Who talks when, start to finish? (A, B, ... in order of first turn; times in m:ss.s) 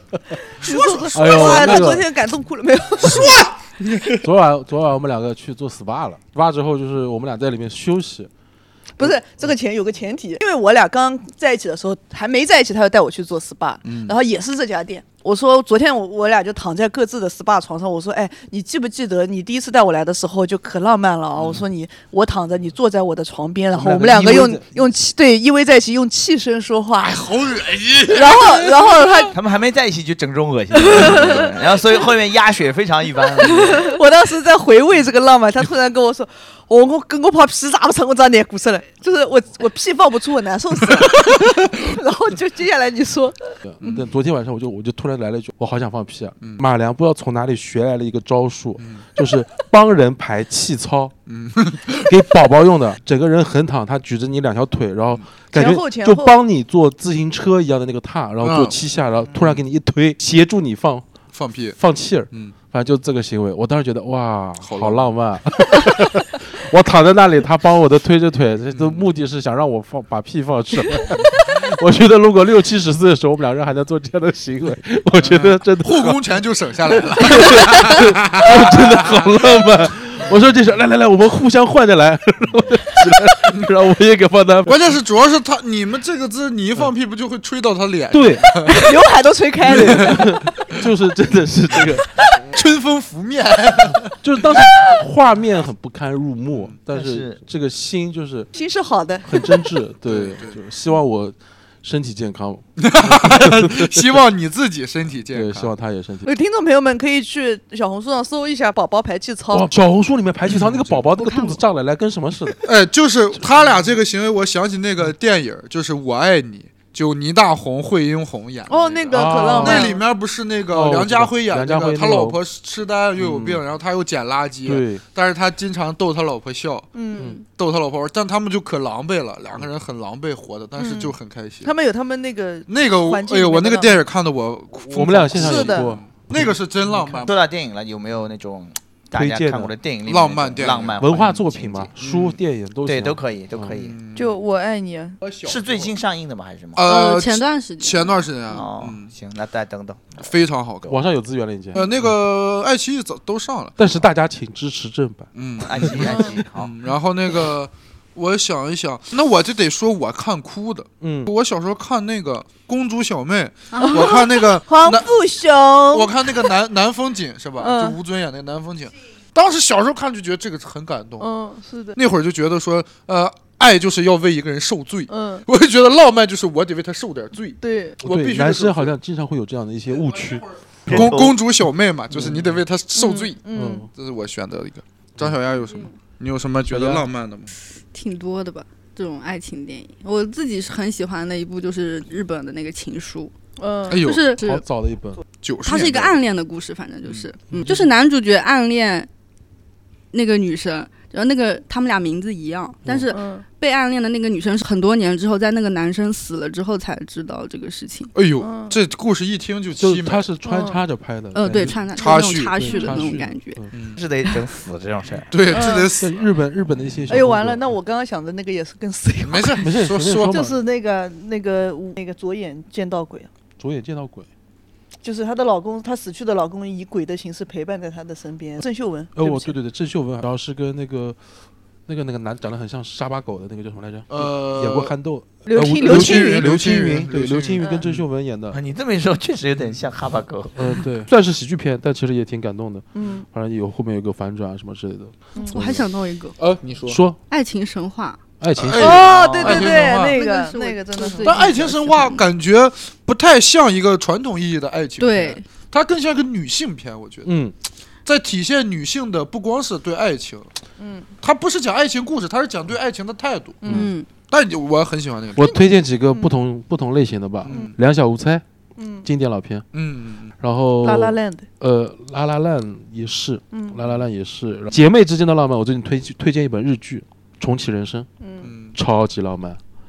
0:00.6-0:02.0 A
0:00.6-0:03.5 B
0:01.1-0:02.0 C
0:03.0-0:04.2 A
0:04.2-0:08.3 C
0:09.0-0:27.2 B
0:13.8-0:14.2 A
0:23.7-0:24.6 C
0:27.0-0:29.3 A
0:28.1-0:29.4 B
0:29.3-0:33.9 D
0:30.9-0:31.5 B
0:33.5-0:43.5 B
0:43.6-0:51.2 C
0:43.8-0:44.1 A
0:48.8-0:49.0 A
0:51.3-0:52.2 A
0:52.0-1:01.0 C
0:55.5-0:56.4 B
0:58.4-0:58.8 A
0:59.4-0:59.6 A
1:01.3-1:01.8 A
1:01.8-1:16.2 C
1:04.6-1:05.1 A
1:08.7-1:09.1 A
1:15.2-1:19.4 A
1:17.1-1:24.9 C
1:24.7-1:29.0 A
1:28.1-1:28.6 C
1:28.6-1:30.4 B
1:29.6-1:32.1 C
1:29.7-1:30.9 A
1:32.5-1:34.2 A
1:34.2-1:38.5 C
1:36.9-1:37.4 D
1:38.5-1:39.6 B
1:39.2-1:44.1 C
1:40.0-1:40.6 A
1:42.8-1:45.7 A
1:45.3-1:46.3 C
1:46.2-1:49.7 B
1:49.5-1:52.6 C
1:50.5-1:51.0 A
1:51.2-1:51.6 E
1:52.6-2:06.9 A
1:58.7-2:00.0 B
1:59.1-2:00.0 C
2:00.7-2:02.4 C
2:03.2-2:03.6 C
2:04.6-2:05.0 C
2:07.0-2:07.4 B
2:07.5-2:11.7 A
2:10.8-2:14.0 B
2:12.7-2:17.4 A
2:14.9-2:16.4 C
2:15.4-2:15.9 B
2:17.2-2:21.9 D
2:19.1-2:19.7 C
2:20.1-2:21.0 A
2:21.0-2:23.8 C
2:22.0-2:22.4 A
2:22.9-2:24.0 D
2:23.8-2:24.4 A
2:24.2-2:25.2 B
2:25.2-2:26.0 A
2:25.5-2:26.8 D
2:26.8-2:29.1 A
2:26.8-2:28.2 E
2:28.5-2:30.3 D
2:30.2-2:31.0 A
2:30.9-2:32.1 C
2:31.7-2:33.8 A
2:33.8-2:35.3 C
2:35.3-2:45.1 A
2:35.6-2:36.7 D
2:41.0-2:41.3 C
2:43.7-2:44.2 E
2:43.8-2:46.5 B
2:45.9-2:51.3 A
2:47.6-2:48.0 B
2:51.2-2:52.0 B
2:52.0-2:59.0 A
2:55.1-2:55.5 B
2:57.6-2:58.0 B
2:58.0-3:01.2 C
3:00.2-3:07.5 A
3:00.9-3:01.4 D
3:02.1-3:02.6 C
3:03.0-3:03.9 B
3:03.5-3:03.9 C
3:06.7-3:07.1 C
3:07.9-3:13.3 E
3:13.6-3:14.0 B
3:13.9-3:14.4 A
3:13.9-3:14.6 E
3:14.4-3:15.2 C
3:15.4-3:16.2 A
3:15.6-3:19.1 E
3:17.1-3:17.3 A
3:17.5-3:17.8 C
3:20.1-3:28.1 E
3:22.9-3:23.1 C
3:23.1-3:23.4 B
3:28.1-3:30.3 A
3:28.4-3:28.8 B
3:29.8-3:31.9 C
3:30.4-3:30.8 B
3:31.3-3:33.6 E
3:31.8-3:32.6 A
3:32.6-3:33.7 C
3:33.7-3:34.0 A
3:34.0-3:35.3 D
3:35.2-3:36.3 A
3:35.5-3:35.9 B
3:36.0-3:37.7 C
3:37.1-3:43.3 B
3:39.2-3:40.4 A
3:39.6-3:40.6 C
3:43.6-3:44.3 C
3:45.0-3:49.6 B
3:49.2-3:51.2 C
3:51.9-3:58.6 C
3:54.1-3:55.0 A
3:55.4-3:56.5 B
3:55.8-3:58.1 A
3:57.6-3:57.8 B
3:58.5-4:00.8 D
4:00.6-4:05.9 C
4:02.9-4:03.3 B
4:05.5-4:06.4 E
4:06.4-4:07.0 A
4:06.9-4:07.2 C
4:07.3-4:08.2 E
4:08.4-4:09.1 C
4:08.6-4:10.2 A
4:08.8-4:11.9 B
4:09.0-4:09.8 D
4:10.0-4:12.2 E
4:11.2-4:17.3 A
4:15.0-4:15.4 E
4:17.2-4:17.5 C
4:18.1-4:20.5 A
4:20.8-4:21.1 B
4:21.2-4:23.8 A
4:23.6-4:23.9 C
4:23.7-4:24.1 E
4:24.3-4:25.5 A
4:25.4-4:28.4 C
4:26.1-4:26.4 B
4:27.4-4:27.7 A
4:27.5-4:27.7 B
4:28.8-4:29.1 B
4:29.0-4:29.7 C
4:29.7-4:30.3 A
4:30.4-4:38.1 C
4:30.8-4:31.5 B
4:33.5-4:33.8 B
4:38.2-4:38.5 B
4:38.4-4:38.8 A
4:38.7-4:39.6 C